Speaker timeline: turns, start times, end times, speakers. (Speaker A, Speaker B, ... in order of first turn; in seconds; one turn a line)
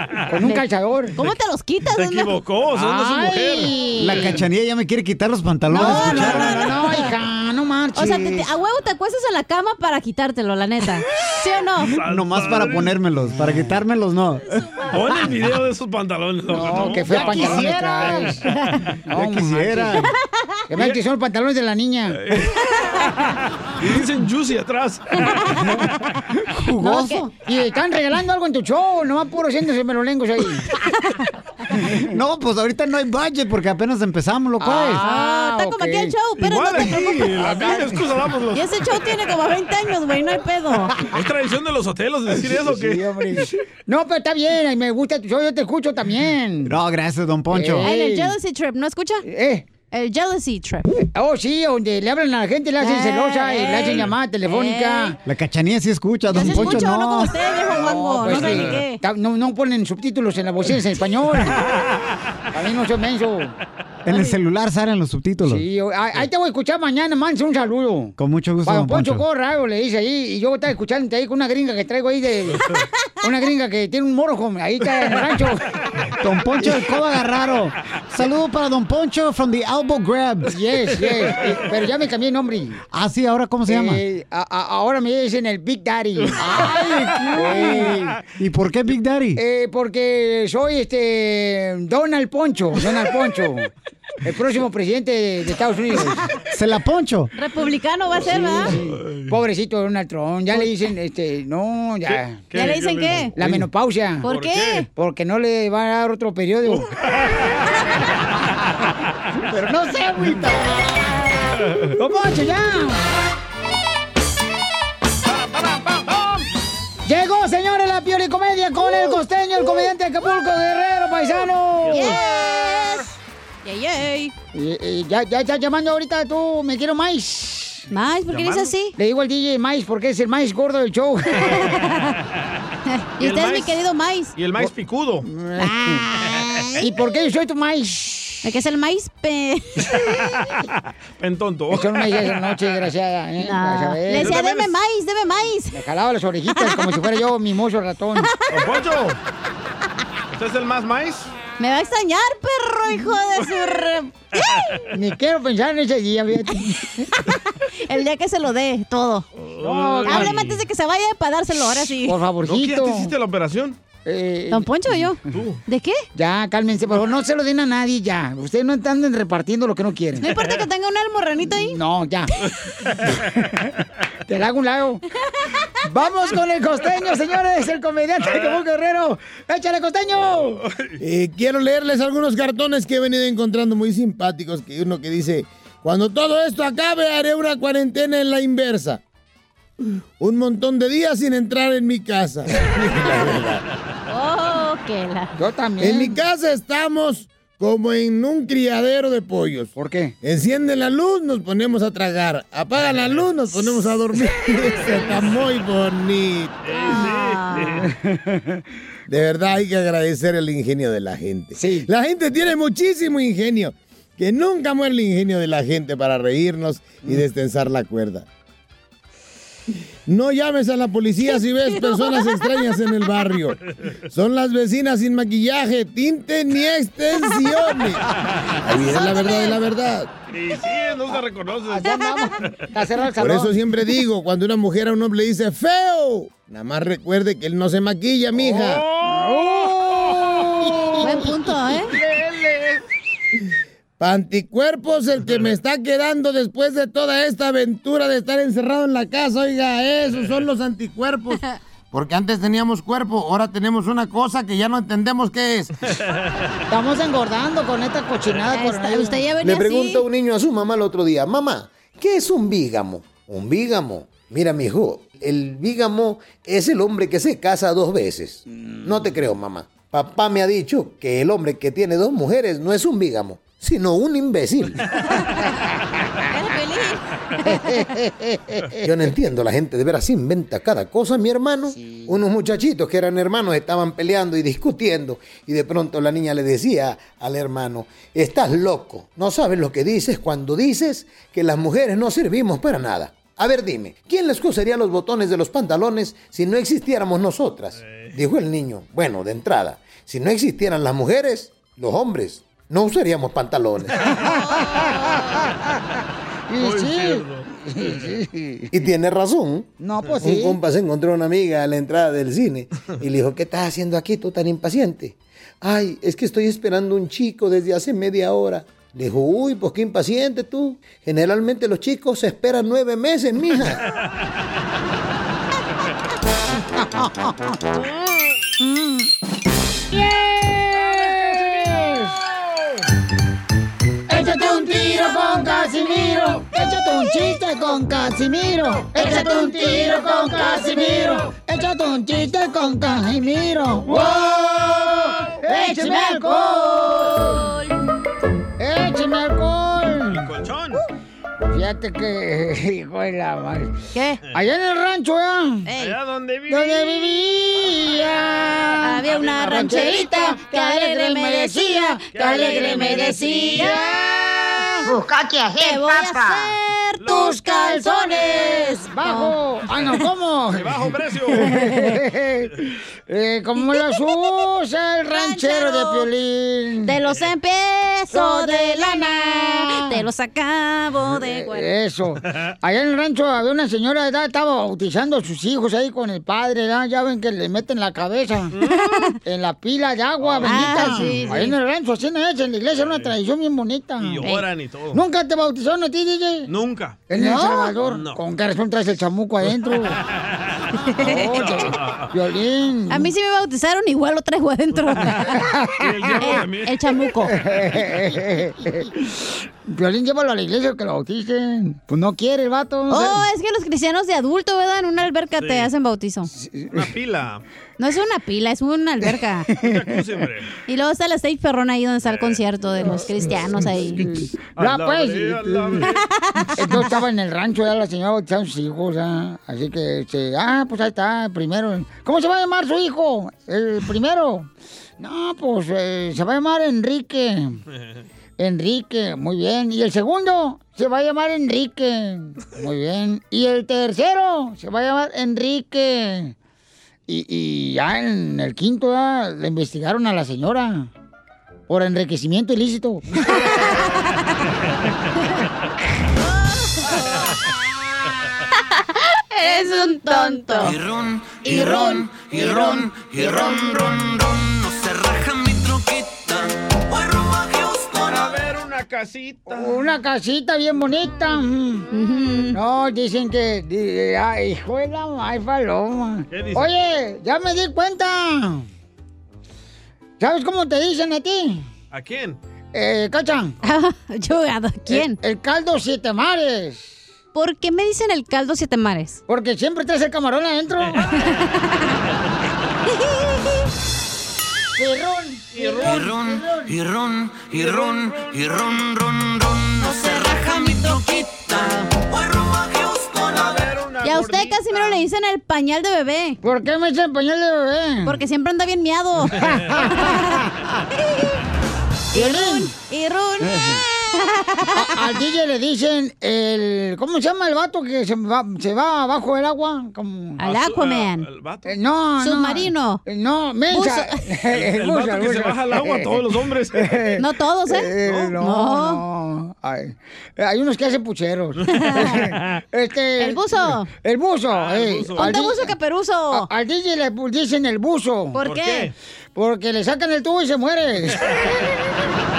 Speaker A: 0.3-1.2
Speaker B: 1.1-2.3
Speaker C: 1.9-4.0
Speaker A: 2.8-4.4
Speaker D: 4.0-6.8
Speaker B: 5.7-7.0
Speaker A: 5.7-8.5
Speaker B: 8.0-12.0
Speaker C: 11.8-13.0
Speaker D: 12.1-14.5
Speaker C: 14.9-17.8
Speaker A: 16.5-18.4
Speaker B: 17.3-18.8
Speaker A: 19.1-19.9
Speaker D: 19.1-20.1
Speaker A: 20.7-22.2
Speaker C: 22.1-25.5
Speaker B: 22.7-23.1
Speaker B: 25.3-25.7
Speaker D: 26.5-27.3
Speaker B: 26.8-27.3
Speaker A: 27.4-30.7
Speaker B: 30.9-31.2
Speaker D: 32.1-35.0
Speaker A: 34.6-36.1
Speaker B: 35.0-37.5
Speaker C: 36.4-39.0
Speaker A: 36.8-38.0
Speaker B: 38.5-40.9
Speaker C: 41.1-43.1
Speaker A: 42.5-46.8
Speaker D: 46.7-47.9
Speaker A: 47.5-48.4
Speaker B: 47.8-49.3
Speaker A: 49.2-49.7
Speaker B: 49.9-50.9
Speaker A: 51.0-55.2
Speaker B: 52.8-55.2
Speaker D: 55.2-57.3
Speaker B: 56.3-59.0
Speaker A: 56.4-57.1
Speaker A: 57.6-61.6
Speaker C: 58.4-58.7
Speaker A: 62.5-63.5
Speaker D: 64.1-65.6
Speaker A: 65.4-72.7
Speaker D: 68.2-69.2
Speaker A: 73.2-75.7
Speaker D: 76.2-80.5
Speaker A: 80.5-82.8
Speaker D: 82.9-84.0
Speaker A: 83.7-88.1
Speaker C: 86.2-86.5
Speaker D: 87.7-89.4
Speaker A: 89.4-93.7
Speaker A: 94.2-96.2
Speaker D: 96.5-97.3
Speaker B: 97.3-98.7
Speaker A: 98.2-102.4
Speaker C: 98.7-99.3
Speaker C: 102.1-103.6
Speaker B: 102.5-103.3
Speaker A: 103.4-104.3
Speaker C: 104.2-104.8
Speaker B: 104.2-104.9
Speaker A: 105.0-106.9
Speaker C: 106.7-107.5
Speaker A: 109.5-110.8
Speaker A: 112.0-113.0
Speaker C: 115.3-116.4
Speaker A: 117.0-122.2
Speaker B: 121.9-123.0
Speaker B: 123.6-124.3
Speaker A: 124.5-127.9
Speaker B: 127.9-128.9
Speaker C: 128.3-128.7
Speaker A: 129.0-131.5
Speaker B: 131.4-132.2
Speaker B: 132.9-134.3
Speaker C: 133.2-133.8
Speaker C: 134.4-135.3
Speaker A: 135.2-136.1
Speaker B: 135.6-136.7
Speaker A: 136.7-138.4
Speaker B: 138.4-139.9
Speaker C: 141.2-142.7
Speaker A: 141.7-144.4
Speaker B: 143.4-145.7
Speaker C: 144.1-144.7
Speaker A: 145.7-148.3
Speaker C: 148.5-149.2
Speaker C: 150.3-151.3
Speaker B: 151.6-154.8
Speaker A: 154.9-157.1
Speaker B: 157.2-159.2
Speaker C: 159.4-160.6
Speaker A: 159.6-160.4
Speaker B: 160.1-162.2
Speaker A: 161.8-163.1
Speaker C: 162.4-163.8
Speaker A: 164.1-164.7
Speaker B: 164.5-166.0
Speaker C: 165.3-165.6
Speaker A: 166.2-170.3
Speaker B: 170.2-171.8
Speaker A: 171.6-172.3
Speaker A: 174.3-175.0
Speaker A: 175.8-180.6
Speaker C: 180.6-180.9
Speaker E: 181.0-189.0
Speaker E: 190.2-193.6
Speaker B: 194.1-195.3
Speaker A: 195.4-196.2
Speaker E: 195.8-199.7
Speaker A: 199.8-200.1
Speaker E: 200.2-206.6
Speaker B: 204.8-205.2
Speaker C: 206.7-207.9
Speaker B: 206.7-207.9
Speaker A: 207.8-208.6
Speaker E: 209.1-218.3
Speaker A: 211.6-211.9
Speaker E: 220.1-223.6
Speaker B: 221.2-222.5
Speaker E: 224.1-228.0
Speaker E: 228.6-230.1
Speaker B: 228.8-229.6
Speaker C: 230.3-232.0
Speaker A: 231.7-233.5
Speaker E: 233.2-238.9
Speaker C: 238.4-241.2
Speaker A: 239.0-241.3
Speaker B: 241.0-241.9
Speaker C: 241.9-242.8
Speaker E: 244.0-251.4
Speaker E: 251.9-255.7
Speaker A: 256.7-259.2
Speaker B: 258.5-260.1
Speaker F: 259.4-274.8
Speaker A: 268.5-269.1
Speaker B: 275.1-275.6
Speaker B: 276.2-277.9
Speaker A: 277.5-278.9
Speaker F: 278.8-304.0
Speaker A: 281.7-282.2
Speaker C: 297.8-298.2
Speaker A: 304.2-305.7
Speaker A: 306.5-308.7
Speaker C: 306.6-308.1
Speaker F: 308.7-309.7
Speaker A: 309.8-310.6
Speaker F: 310.2-323.8
Speaker A: 326.8-327.5
Speaker A: 328.6-329.1
Speaker A: 329.9-332.2
Speaker C: 330.9-331.8
Speaker A: 334.1-347.4
Speaker B: 339.0-341.1
Speaker B: 345.5-347.7
Speaker A: 348.6-350.3
Speaker C: 350.1-350.8
Speaker A: 351.5-353.7
Speaker B: 353.9-354.2
Speaker A: 354.3-355.7
Speaker B: 355.7-355.9
Speaker C: 355.8-357.4
Speaker A: 356.5-365.0
Speaker B: 358.8-363.9
Speaker C: 359.1-359.9
Speaker C: 362.1-363.8
Speaker B: 365.6-369.4
Speaker A: 367.1-377.0
Speaker C: 370.5-371.5
Speaker B: 371.4-372.0
Speaker B: 373.6-374.1
Speaker B: 375.1-376.1
Speaker B: 376.9-381.7
Speaker A: 378.1-380.0
Speaker A: 381.2-388.5
Speaker C: 388.5-388.9
Speaker B: 388.7-389.2
Speaker A: 389.2-394.2
Speaker C: 390.2-391.4
Speaker B: 390.4-391.5
Speaker C: 392.8-393.1
Speaker C: 394.0-395.0
Speaker A: 394.9-396.5
Speaker C: 396.5-397.0
Speaker A: 397.1-400.0
Speaker B: 397.2-397.7
Speaker C: 397.8-398.2
Speaker A: 401.0-403.1
Speaker C: 401.0-402.1
Speaker B: 402.9-405.2
Speaker C: 404.9-407.0
Speaker A: 405.2-406.4
Speaker B: 406.2-407.3
Speaker A: 407.3-413.3
Speaker B: 412.9-416.3
Speaker C: 415.4-415.7
Speaker A: 416.3-416.9
Speaker C: 416.7-417.4
Speaker B: 417.8-419.5
Speaker C: 419.6-420.5
Speaker B: 420.7-424.1
Speaker C: 422.1-422.4
Speaker A: 423.9-425.9
Speaker C: 424.6-426.0
Speaker B: 425.8-426.8
Speaker A: 426.6-437.6
Speaker A: 438.4-446.4
Speaker A: 447.1-450.9
Speaker A: 451.7-453.4
Speaker B: 453.3-454.2
Speaker B: 456.2-457.2
Speaker B: 459.3-460.8
Speaker G: 460.6-468.4
Speaker A: 461.4-463.5
Speaker B: 461.5-461.8
Speaker C: 468.1-469.9
Speaker A: 469.5-471.9
Speaker B: 471.9-472.6
Speaker A: 472.5-478.7
Speaker C: 476.3-476.7
Speaker A: 480.2-481.7
Speaker C: 481.9-482.4
Speaker A: 482.7-483.6
Speaker B: 483.6-485.2
Speaker A: 484.9-486.9
Speaker B: 487.3-489.2
Speaker A: 489.3-491.1
Speaker C: 490.8-491.2
Speaker B: 491.2-491.9
Speaker A: 494.8-496.7
Speaker C: 495.5-496.1
Speaker G: 495.8-503.7
Speaker C: 497.5-498.4
Speaker B: 499.8-501.9
Speaker C: 503.4-505.0
Speaker B: 504.0-506.4
Speaker A: 506.4-508.2
Speaker B: 508.1-510.5
Speaker A: 509.4-510.5
Speaker A: 512.1-512.7
Speaker B: 512.1-514.9
Speaker A: 513.4-513.8
Speaker A: 514.7-520.4
Speaker C: 520.4-521.8
Speaker B: 520.4-521.3
Speaker A: 521.7-526.2
Speaker B: 522.2-523.0
Speaker B: 523.7-524.2
Speaker C: 524.5-527.0
Speaker A: 526.8-535.7
Speaker B: 527.2-529.0
Speaker C: 528.0-528.4
Speaker B: 531.7-532.2
Speaker C: 532.0-532.6
Speaker B: 533.2-533.9
Speaker C: 534.5-535.4
Speaker B: 535.2-536.5
Speaker A: 536.3-538.4
Speaker B: 538.4-538.9
Speaker C: 538.4-538.9
Speaker A: 539.4-541.3
Speaker C: 541.3-541.5